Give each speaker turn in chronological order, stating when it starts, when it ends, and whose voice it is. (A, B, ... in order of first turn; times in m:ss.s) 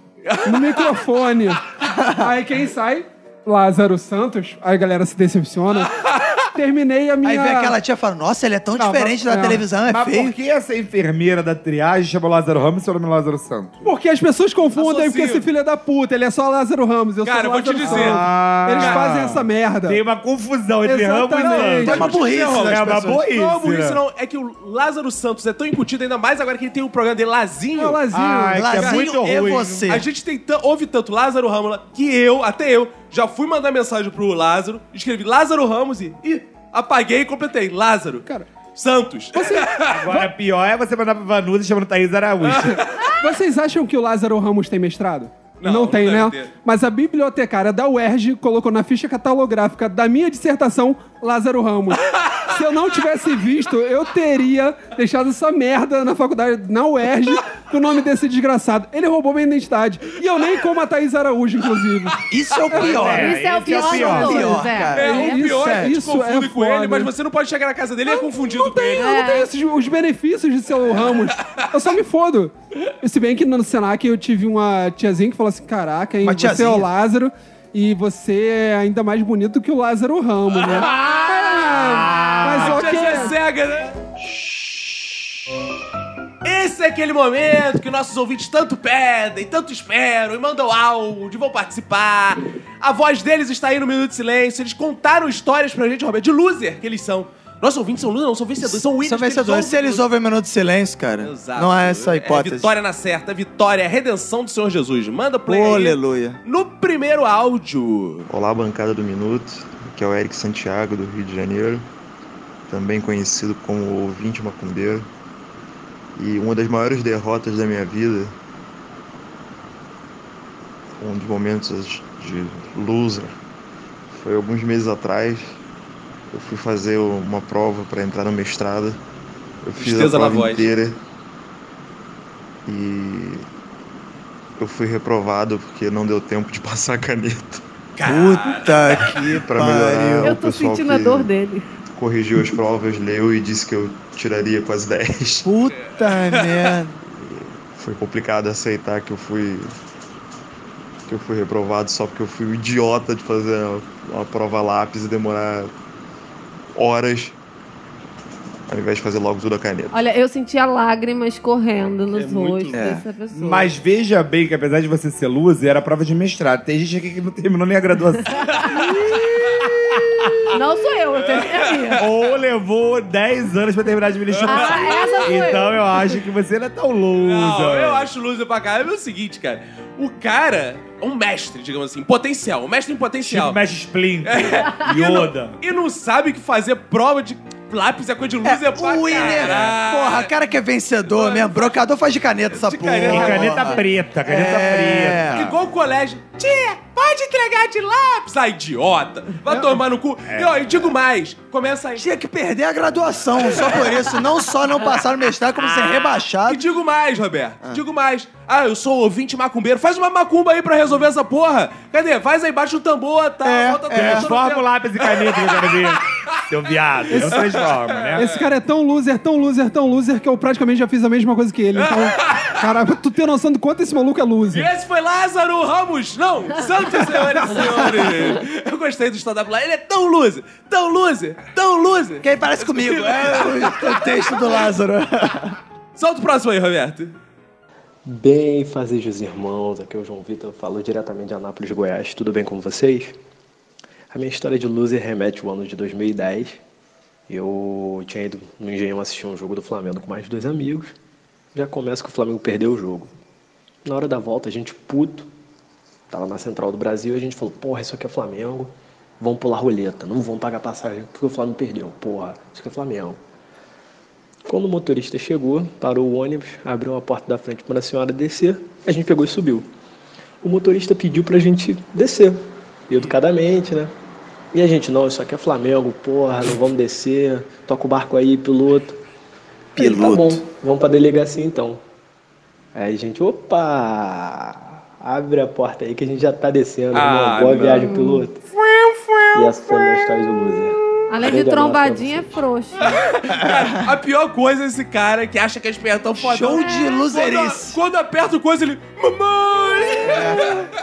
0:00.2-0:01.0 A
0:00.4-0:05.9 B
0:01.9-0:02.3 C
0:06.0-0:06.3 A
0:06.5-0:07.8 B
0:07.2-0:10.3 C
0:08.8-0:09.6 B
0:09.8-0:13.8 D
0:13.8-0:20.0 B
0:14.8-0:15.5 A
0:17.2-0:18.2 A
0:17.9-0:24.0 D
0:18.7-0:19.0 A
0:20.8-0:22.1 B
0:21.8-0:28.0 A
0:21.8-0:23.2 C
0:27.7-0:28.8 B
0:28.1-0:30.0 D
0:28.6-0:30.0 C
0:29.9-0:40.0 A
0:39.3-0:40.3 B
0:39.9-0:42.8 D
0:42.4-0:42.8 A
0:42.6-1:03.1 B
0:45.6-0:46.5 A
1:02.3-1:05.4 C
1:02.8-1:04.5 D
1:03.1-1:05.3 E
1:04.9-1:09.2 A
1:05.0-1:07.1 B
1:08.1-1:23.3 B
1:09.0-1:09.5 E
1:10.9-1:11.6 A
1:16.2-1:16.9 C
1:20.6-1:24.0 A
1:21.8-1:22.8 D
1:26.4-1:40.0 A
1:38.7-1:42.7 C
1:41.2-1:48.3 A
1:45.5-1:46.4 C
1:48.3-1:51.8 F
1:52.7-1:55.1 F
1:56.2-1:58.3 F
2:01.0-2:03.3 F
2:04.1-2:05.6 F
2:06.3-2:09.0 F
2:09.6-2:11.0 F
2:09.8-2:10.7 A
2:12.6-2:13.5 F
2:14.6-2:17.6 F
2:18.0-2:19.1 A
2:18.0-2:20.3 C
2:19.4-2:21.3 F
2:20.2-2:21.7 E
2:21.9-2:25.5 F
2:25.4-2:27.0 C
2:26.3-2:26.7 A
2:27.1-2:29.7 F
2:31.1-2:35.7 F
2:36.7-2:37.4 F
2:38.7-2:40.0 F
2:39.9-2:43.7 E
2:42.1-2:42.8 A
2:42.7-2:43.0 C
2:43.3-2:48.5 D
2:48.7-2:49.2 E
2:49.6-2:50.5 D
2:50.5-2:52.0 E
2:51.3-2:52.0 A
2:51.9-2:58.1 D
2:54.3-2:55.4 A
2:54.4-2:55.8 E
2:57.2-3:03.6 A
3:03.2-3:05.6 D
3:04.2-3:10.3 A
3:08.4-3:15.5 C
3:11.1-3:11.8 A
3:12.5-3:13.8 A
3:13.0-3:15.6 D
3:15.3-3:22.0 A
3:20.3-3:20.9 D
3:22.0-3:26.6 C
3:25.6-3:36.4 A
3:33.4-3:34.3 C
3:33.9-3:38.2 D
3:37.1-3:38.5 A
3:37.1-3:37.5 B
3:38.2-3:44.7 B
3:41.7-3:42.6 A
3:44.5-3:54.7 A
3:47.5-3:48.2 C
3:52.2-3:55.6 C
3:56.0-3:57.1 A
3:58.0-4:03.2 G
4:04.1-4:06.6 G
4:07.3-4:10.9 G
4:11.5-4:13.1 G
4:13.8-4:15.3 G
4:16.1-4:23.2 G
4:24.5-4:29.7 G
4:30.4-4:33.9 G
4:34.5-4:39.0 G
4:39.8-4:40.4 C
4:39.8-4:41.8 G
4:42.7-4:48.4 G
4:46.9-4:47.9 A
4:47.8-4:48.2 E
4:48.5-4:50.0 A
4:49.3-4:52.4 G
4:51.1-4:53.0 E
4:52.8-5:00.6 A
4:53.3-4:53.8 C
4:56.2-4:57.8 C
5:00.0-5:00.7 C